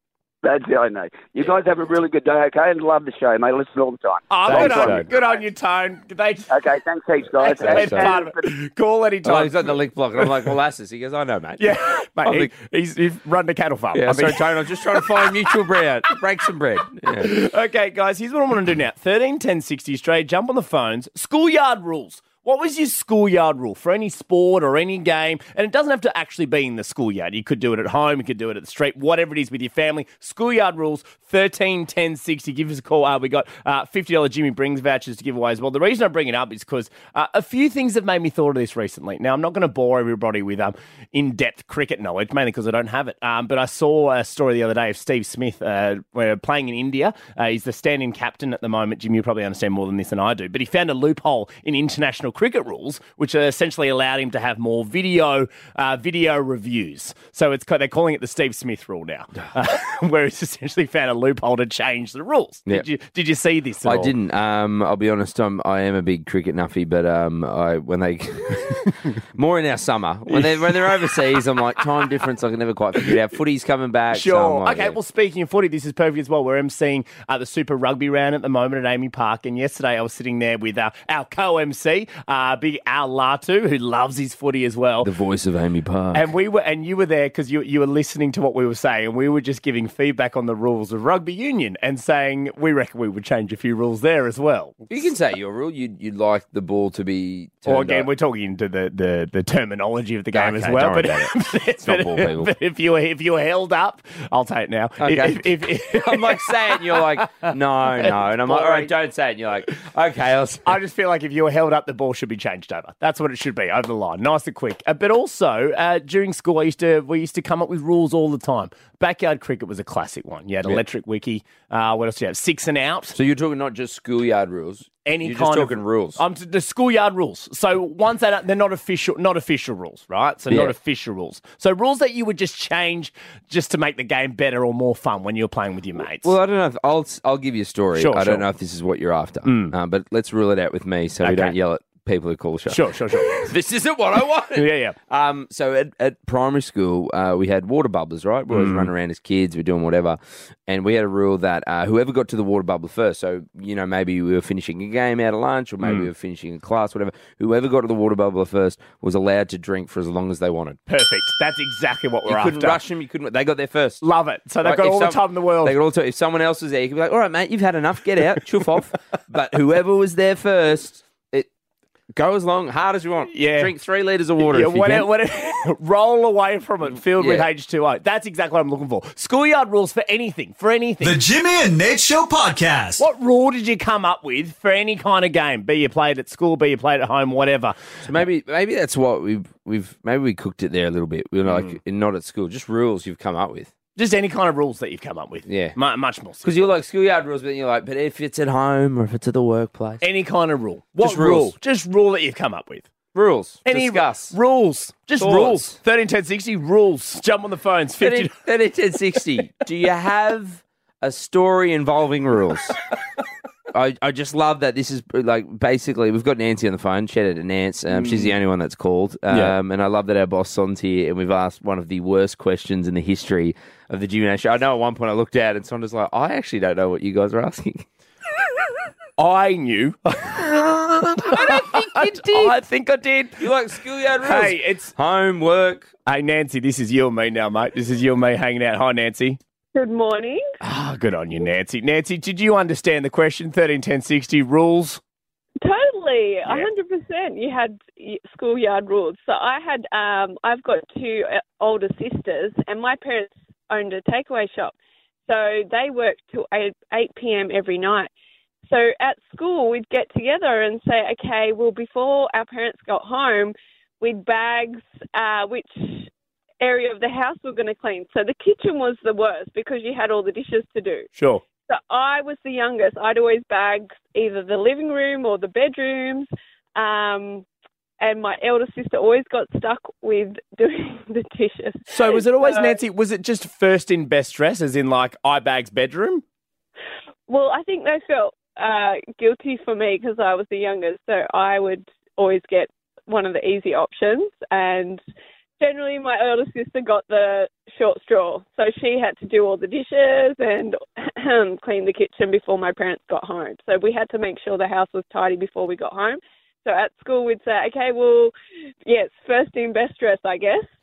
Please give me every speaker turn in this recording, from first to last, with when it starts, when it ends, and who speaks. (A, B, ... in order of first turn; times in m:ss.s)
0:00.4-0:05.4 A
0:04.3-0:06.5 B
0:04.5-0:05.1 C
0:06.5-0:08.5 A
0:07.4-0:09.7 B
0:07.6-0:08.1 C
0:09.2-0:11.7 C
0:11.6-0:15.0 B
0:12.2-0:12.5 C
0:13.9-0:17.3 C
0:17.2-1:04.1 B
1:03.8-1:15.0 C
1:10.3-1:11.1 B
1:14.1-1:25.1 B
1:25.0-1:26.2 C
1:26.1-1:34.9 B
1:34.9-1:38.1 C
1:37.6-1:48.9 B
1:40.3-1:42.5 C
1:45.0-1:50.8 C
1:50.6-2:03.2 B
2:03.1-2:06.2 C
2:05.0-2:16.3 B
2:10.5-2:10.7 C
2:16.2-2:40.8 C
2:18.0-2:18.4 B
2:19.4-2:19.7 B
2:21.2-2:21.5 B
2:22.7-2:23.5 B
2:24.5-2:25.0 B
2:28.5-2:28.9 B
2:35.8-2:36.1 B
2:40.9-2:42.8 B
2:42.2-2:44.0 C
2:44.0-2:45.7 B
2:44.6-2:51.5 C
2:52.1-2:55.1 C
2:53.3-2:53.7 B
2:54.4-3:01.2 B
2:57.2-2:57.5 C
3:01.0-3:03.0 D
3:03.0-3:07.8 B
3:08.0-3:13.7 C
3:11.4-3:11.8 B
3:14.0-3:16.7 B
3:15.4-3:15.8 C
3:16.4-3:20.0 C
3:20.0-3:22.9 B
3:21.0-3:21.5 C
3:23.1-3:24.4 C
3:23.6-3:28.3 B
3:25.2-3:25.8 C
3:28.0-3:32.8 C
3:33.7-3:47.9 C
3:37.9-3:38.4 B
3:39.3-3:39.5 B
3:49.2-3:53.5 B
3:53.4-3:55.9 C
3:54.2-3:54.9 B
3:56.0-3:59.4 B
3:59.7-4:00.4 E
4:00.6-4:05.0 B
4:05.6-4:14.7 E
4:15.3-4:18.1 E
4:18.7-4:26.1 E
4:26.6-4:31.1 E
4:31.1-4:31.4 B
4:31.7-4:37.4 E
4:38.0-4:42.8 E
4:41.9-4:46.2 B
4:47.3-4:55.0 E
4:55.6-5:08.3 E
5:08.8-5:10.7 E